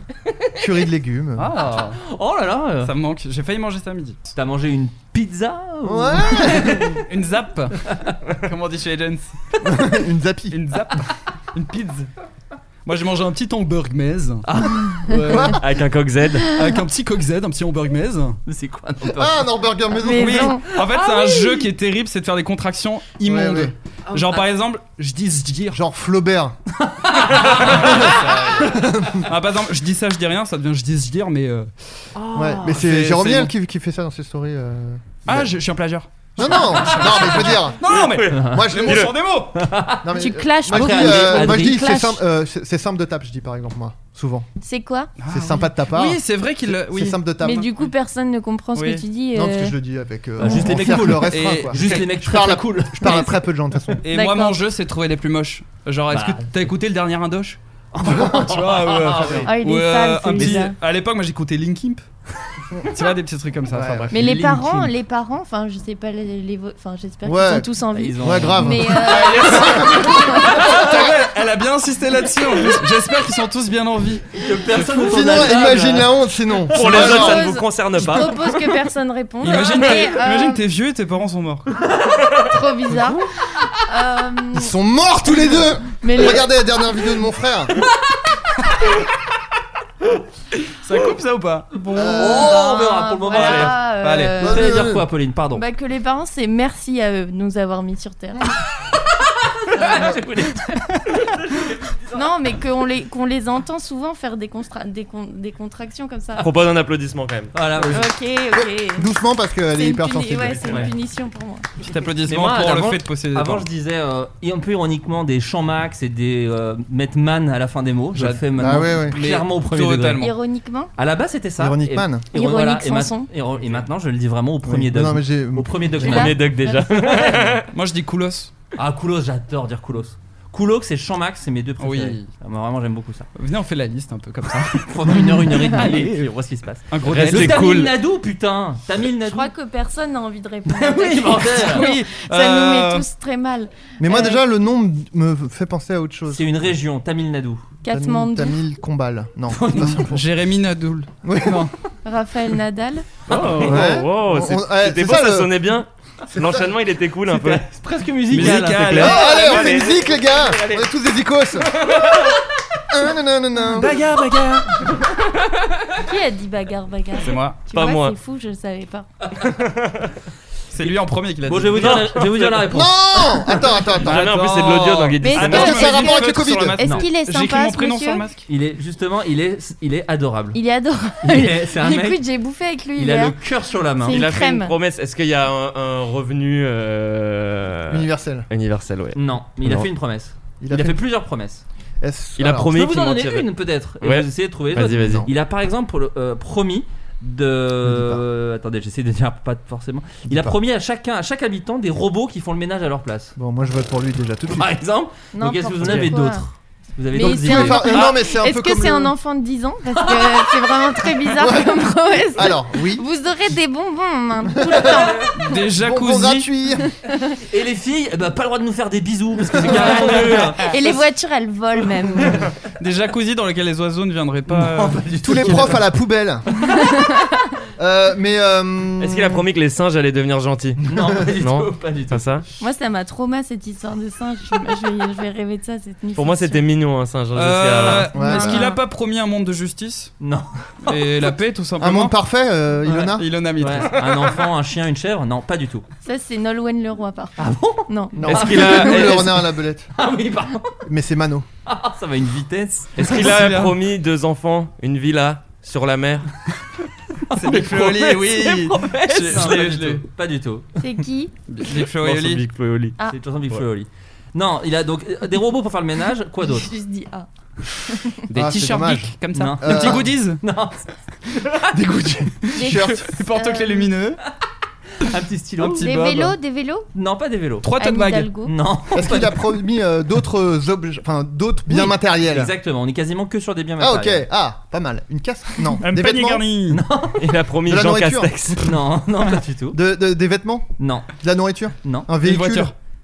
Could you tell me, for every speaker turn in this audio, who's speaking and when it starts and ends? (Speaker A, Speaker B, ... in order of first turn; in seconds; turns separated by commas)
Speaker A: 0.6-1.5, Speaker B: 1.4-2.0, Speaker C: 1.6-2.9, Speaker B: 2.8-4.3, Speaker C: 4.3-7.0, Speaker A: 5.8-7.0, Speaker B: 7.0-9.3, Speaker A: 9.6-10.6, Speaker B: 10.5-12.1, Speaker B: 12.8-14.4, Speaker C: 14.4-14.8, Speaker B: 15.1-15.6, Speaker A: 15.3-15.6, Speaker D: 15.6-16.5, Speaker B: 16.5-18.4, Speaker C: 18.4-19.4, Speaker A: 19.0-20.5, Speaker E: 20.0-21.6, Speaker B: 20.0-25.8, Speaker A: 23.2-23.7, Speaker C: 24.1-24.4, Speaker A: 25.7-26.5, Speaker C: 26.8-28.6, Speaker B: 27.7-28.1, Speaker A: 27.8-29.3, Speaker B: 29.2-31.7, Speaker C: 32.2-32.7, Speaker A: 32.3-35.5, Speaker B: 32.6-33.5, Speaker B: 35.2-39.6, Speaker A: 36.4-37.9, Speaker D: 37.8-39.1, Speaker C: 38.3-38.6, Speaker A: 38.5-39.1, Speaker C: 39.5-40.1, Speaker A: 40.0-44.5, Speaker E: 40.1-42.2, Speaker C: 40.7-41.9, Speaker E: 44.6-45.1, Speaker B: 45.2-47.6, Speaker A: 45.3-46.2, Speaker A: 46.7-47.6, Speaker E: 47.4-49.8, Speaker B: 48.7-49.0, Speaker A: 49.3-54.0, Speaker C: 50.4-53.4, Speaker B: 51.3-52.1, Speaker B: 54.0-57.6, Speaker E: 54.1-54.6, Speaker C: 56.1-56.7, Speaker C: 57.9-59.5, Speaker A: 58.0-58.4, Speaker B: 58.1-62.0, Speaker E: 59.4-60.8, Speaker B: 62.8-64.1, Speaker A: 63.7-64.1, Speaker C: 64.1-64.9, Speaker E: 64.1-70.7, Speaker A: 67.2-71.0, Speaker C: 67.9-68.8, Speaker B: 69.2-69.8, Speaker B: 70.5-75.4, Speaker C: 74.3-76.2, Speaker A: 74.9-77.4, Speaker D: 76.7-78.7, Speaker E: 76.8-80.6, Speaker B: 79.4-81.7, Speaker E: 82.5-83.2, Speaker B: 82.9-83.2, Speaker E: 83.8-84.7, Speaker A: 84.5-87.7, Speaker E: 86.0-86.5, Speaker B: 90.8-92.1, Speaker A: 91.9-92.6, Speaker E: 91.9-94.8, Speaker C: 92.1-93.8, Speaker B: 93.4-94.4, Speaker A: 94.4-95.0, Speaker C: 94.4-95.6, Speaker E: 95.5-98.5, Speaker C: 99.4-102.2, Speaker E: 102.1-106.5, Speaker D: 106.4-107.5, Speaker C: 107.5-108.0, Speaker B: 107.8-108.0, Speaker E: 107.9-109.0, Speaker A: 108.5-110.9, Speaker E: 109.7-111.7, Speaker B: 111.8-113.7, Speaker C: 112.2-120.2, Speaker B: 118.1-120.3, Speaker A: 118.5-119.2, Speaker E: 120.2-120.9, Speaker C: 121.0-127.5, Speaker A: 121.6-122.3, Speaker E: 122.3-123.3, Speaker A: 124.6-126.1, Speaker E: 126.0-127.2, Speaker D: 126.1-127.7, Speaker B: 127.7-128.5, Speaker C: 128.8-133.3, Speaker B: 131.8-132.3, Speaker B: 133.3-136.3, Speaker C: 134.8-139.5, Speaker B: 136.9-137.7, Speaker D: 137.0-138.0, Speaker E: 139.2-144.4, Speaker C: 140.7-141.9, Speaker B: 141.7-143.1, Speaker A: 144.0-146.7, Speaker C: 146.3-147.7, Speaker E: 147.8-148.6, Speaker A: 147.9-150.2, Speaker C: 149.5-150.1, Speaker B: 149.8-151.7, Speaker A: 151.2-151.7, Speaker E: 152.0-153.1, Speaker C: 153.3-153.8, Speaker D: 153.3-157.6, Speaker A: 153.6-155.5, Speaker A: 156.3-156.7, Speaker C: 157.3-160.8, Speaker B: 158.3-159.4, Speaker D: 158.3-160.0, Speaker A: 159.0-161.7, Speaker D: 161.8-162.2, Speaker A: 162.9-163.9, Speaker B: 163.6-164.8, Speaker E: 166.0-169.1, Speaker B: 167.2-167.6, Speaker D: 167.7-168.2, Speaker D: 169.4-170.1, Speaker B: 170.7-172.1, Speaker C: 171.5-173.2, Speaker D: 171.8-172.7, Speaker A: 172.7-174.3, Speaker D: 174.0-175.8, Speaker B: 174.0-178.4, Speaker E: 175.2-178.2, Speaker A: 175.4-176.8, Speaker C: 178.5-180.6, Speaker E: 180.5-183.4, Speaker C: 181.2-182.2, Speaker C: 182.9-184.2, Speaker E: 184.0-184.8, Speaker D: 184.1-189.9, Speaker A: 187.9-188.5, Speaker C: 189.1-191.6, Speaker A: 190.6-191.0, Speaker A: 192.0-192.7, Speaker D: 192.4-193.5, Speaker C: 192.7-203.3, Speaker D: 194.0-195.3, Speaker A: 194.9-195.3, Speaker A: 197.8-198.2, Speaker A: 200.3-200.5, Speaker A: 203.4-204.7, Speaker C: 204.5-208.1, Speaker E: 205.3-206.4, Speaker B: 205.8-206.1, Speaker E: 207.1-215.3, Speaker A: 207.2-209.1, Speaker C: 210.0-210.5, Speaker A: 211.2-213.0, Speaker A: 214.6-215.1, Speaker B: 215.3-216.5, Speaker A: 215.7-216.9, Speaker C: 217.5-220.7, Speaker A: 219.6-220.0, Speaker E: 220.6-222.5, Speaker B: 222.8-225.7, Speaker C: 224.5-225.8, Speaker A: 225.2-226.4, Speaker E: 226.7-227.4, Speaker A: 227.8-229.4, Speaker D: 229.0-230.8, Speaker C: 230.8-232.2, Speaker D: 231.4-232.4, Speaker E: 232.6-236.6, Speaker D: 236.2-238.2, Speaker B: 237.3-240.1, Speaker A: 238.1-238.6, Speaker E: 238.2-238.8, Speaker C: 240.2-241.1, Speaker B: 240.9-242.1, Speaker A: 241.8-243.3, Speaker B: 242.8-243.9, Speaker C: 243.6-245.8, Speaker E: 246.0-247.4, Speaker C: 247.4-249.4, Speaker E: 247.9-249.2, Speaker A: 248.2-249.9, Speaker C: 249.9-250.8, Speaker A: 250.8-251.4, Speaker C: 251.7-253.2, Speaker D: 253.0-256.3, Speaker B: 253.0-253.8, Speaker C: 257.3-260.7, Speaker B: 257.3-260.0, Speaker D: 257.5-258.4, Speaker E: 260.8-261.3, Speaker B: 261.5-262.4, Speaker D: 262.0-262.9, Speaker C: 263.0-266.7, Speaker E: 266.4-268.2, Speaker B: 268.3-270.4, Speaker A: 268.3-270.1, Speaker C: 269.3-270.9, Speaker A: 271.7-273.1, Speaker B: 272.4-274.2, Speaker E: 272.5-273.9, Speaker C: 275.0-275.9, Speaker B: 275.6-276.4, Speaker E: 275.8-276.9, Speaker C: 276.9-277.7, Speaker B: 277.6-278.3, Speaker E: 277.8-278.5, Speaker C: 278.4-279.4, Speaker A: 278.9-282.5, Speaker C: 281.7-284.3, Speaker A: 283.8-286.5, Speaker B: 285.8-286.8, Speaker C: 286.7-287.3, Speaker D: 287.2-288.6, Speaker A: 287.6-288.3, Speaker C: 288.6-289.8, Speaker A: 289.7-292.7, Speaker C: 290.8-291.1, Speaker C: 291.8-292.1, Speaker B: 292.2-292.7